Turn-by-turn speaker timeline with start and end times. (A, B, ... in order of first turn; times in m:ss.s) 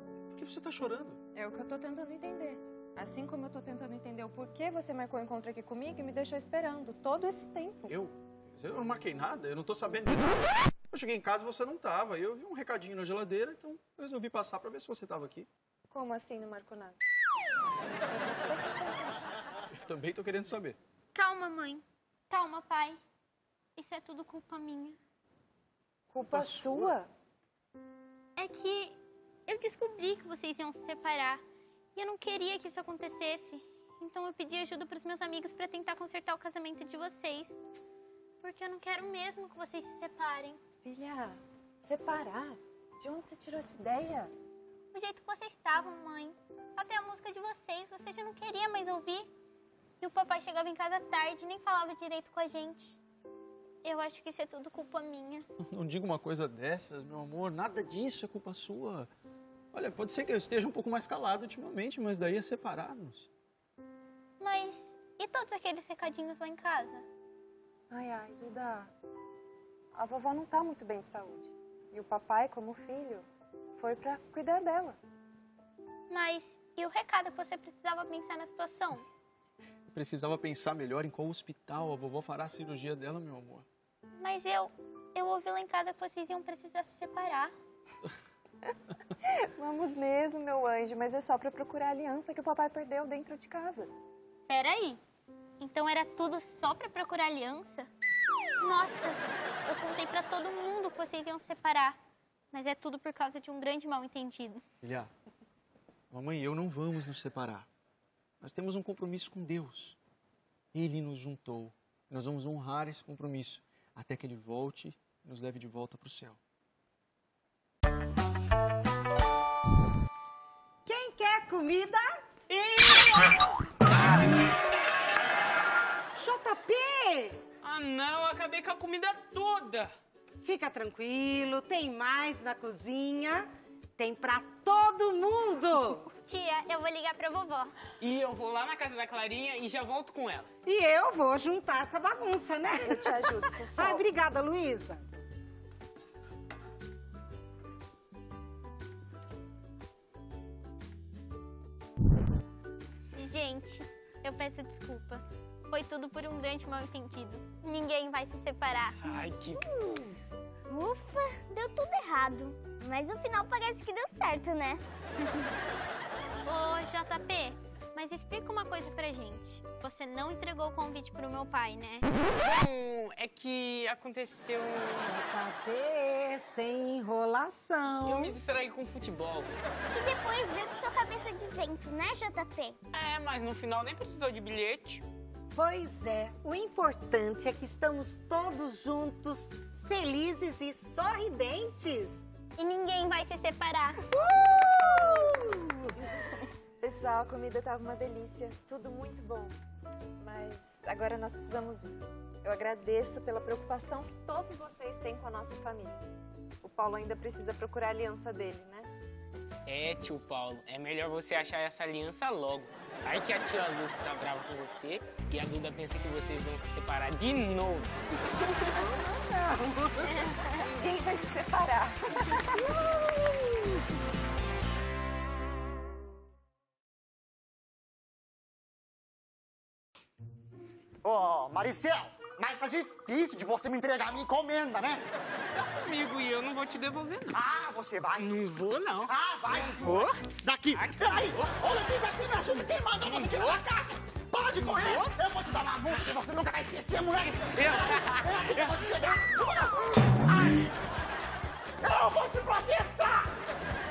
0:00.3-0:01.2 A
0:01.3-0:07.9 B
0:07.9-0:10.4 A
0:10.9-0:15.5 A
0:15.9-0:17.0 B
0:17.8-0:19.2 B
0:19.7-0:20.8 A
0:21.1-0:23.0 C
0:23.8-0:25.0 C
0:26.1-0:27.1 B
0:26.2-0:26.9 A
0:28.4-0:29.0 C
0:29.5-0:31.4 C
0:31.9-0:37.6 C
0:38.4-0:40.6 C
0:40.8-0:44.3 B
0:44.9-0:49.3 C
0:50.0-0:53.0 C
0:53.8-0:55.4 C
0:55.6-0:59.1 A
0:59.7-1:03.3 A
1:04.4-1:07.0 C
1:07.9-1:08.9 B
1:09.9-1:15.0 B
1:16.1-1:19.0 C
1:19.9-1:23.6 A
1:24.2-1:27.5 C
1:29.2-1:33.9 B
1:34.5-1:35.0 C
1:35.6-1:37.9 C
1:38.6-1:42.0 C
1:42.5-1:44.6 C
1:44.8-1:45.1 A
1:46.1-1:47.7 A
1:48.4-1:50.0 A
1:50.7-1:56.4 A
2:00.8-2:02.2 D
2:02.5-2:04.2 E
2:06.1-2:07.4 D
2:07.6-2:09.9 E
2:10.4-2:16.1 D
2:16.2-2:17.7 C
2:18.0-2:20.5 E
2:20.6-2:25.1 D
2:22.7-2:24.0 B
2:33.1-2:39.0 C
2:39.0-2:40.0 E
2:40.7-2:45.4 F
2:46.4-2:52.1 C
2:52.4-2:55.1 E
2:55.0-2:58.4 D
2:58.0-2:59.5 E
2:59.9-3:02.8 F
3:02.9-3:05.0 E
3:05.5-3:12.2 D
3:12.6-3:14.0 C
3:14.1-3:16.0 D
3:16.8-3:19.5 B
3:20.2-3:26.1 B
3:26.6-3:28.9 B
3:29.6-3:38.0 E
3:38.7-3:40.2 D
3:40.4-3:42.6 B
3:42.5-3:43.8 D
3:51.0-3:55.0 G
3:55.5-3:57.4 E
3:57.3-3:58.4 G
3:58.2-3:59.1 E
3:59.0-4:10.7 G
3:59.7-4:00.2 E
4:00.7-4:01.4 E
4:03.0-4:03.6 E
4:04.6-4:05.1 E
4:07.5-4:08.8 E
4:11.8-4:13.4 G